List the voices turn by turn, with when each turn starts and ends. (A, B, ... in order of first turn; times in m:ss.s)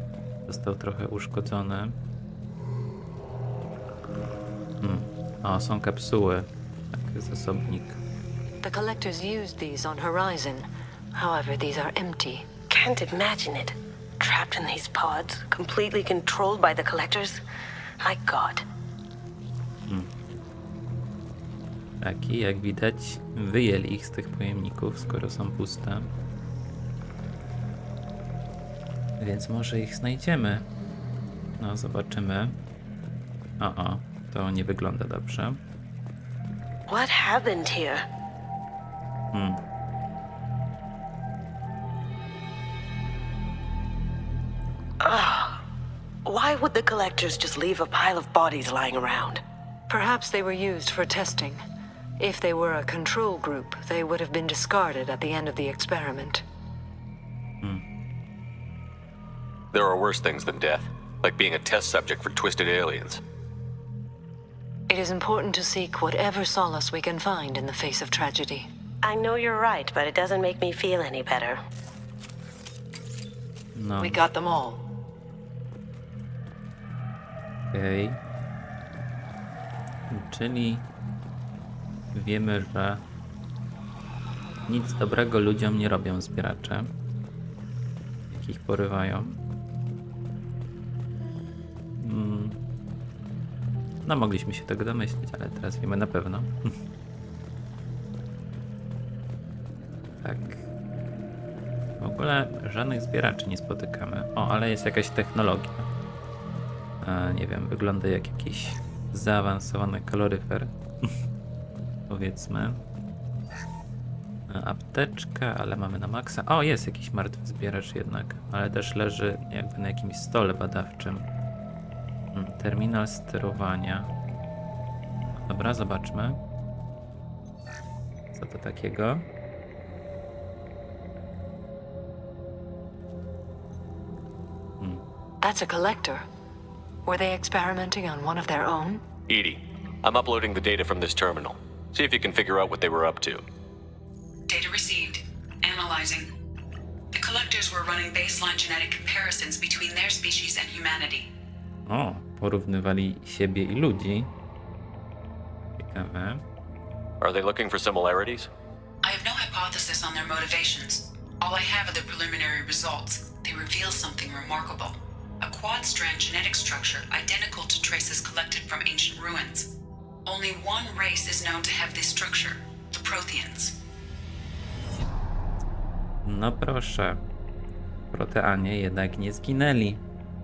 0:00.5-0:01.9 A
0:04.8-0:08.0 A
0:08.6-0:12.5 B
0:12.7-0:17.4 C
0:18.0-0:18.6 C
0:22.0-0:26.1 A
0:29.2-0:30.6 A
0:31.6-0:32.5 A
0:33.6-0:35.6 A
0:36.9-0:38.0 C
0:39.3-0:39.6 A
0:45.0-0:45.6 C
0:46.2-0:49.4 C
0:49.9-0:51.6 B
0:52.2-0:56.4 B
0:59.7-1:03.2 D
1:04.9-1:08.7 B
1:09.0-1:11.6 C
1:13.7-1:14.2 A
1:14.0-1:14.8 B
1:17.7-1:18.2 A
1:20.1-1:20.8 A
1:22.1-1:23.0 A
1:24.7-1:26.9 A
1:28.3-1:29.4 A
1:32.0-1:32.6 A
1:34.0-1:36.7 A
1:40.2-1:40.6 A
1:42.0-1:45.9 A
1:47.0-1:51.1 A
1:52.1-1:52.8 A
1:54.5-2:01.2 A
2:02.3-2:04.1 A
2:05.4-2:06.4 A
2:08.3-2:09.2 A
2:15.4-2:16.2 B
2:17.0-2:19.0 B
2:19.3-2:23.4 D
2:24.5-2:26.3 E
2:27.1-2:31.3 E
2:31.9-2:34.3 A
2:35.8-2:36.4 A
2:37.2-2:38.5 D
2:39.0-2:49.7 E
2:50.2-2:53.8 E
2:56.2-2:57.2 A
2:58.1-3:00.0 A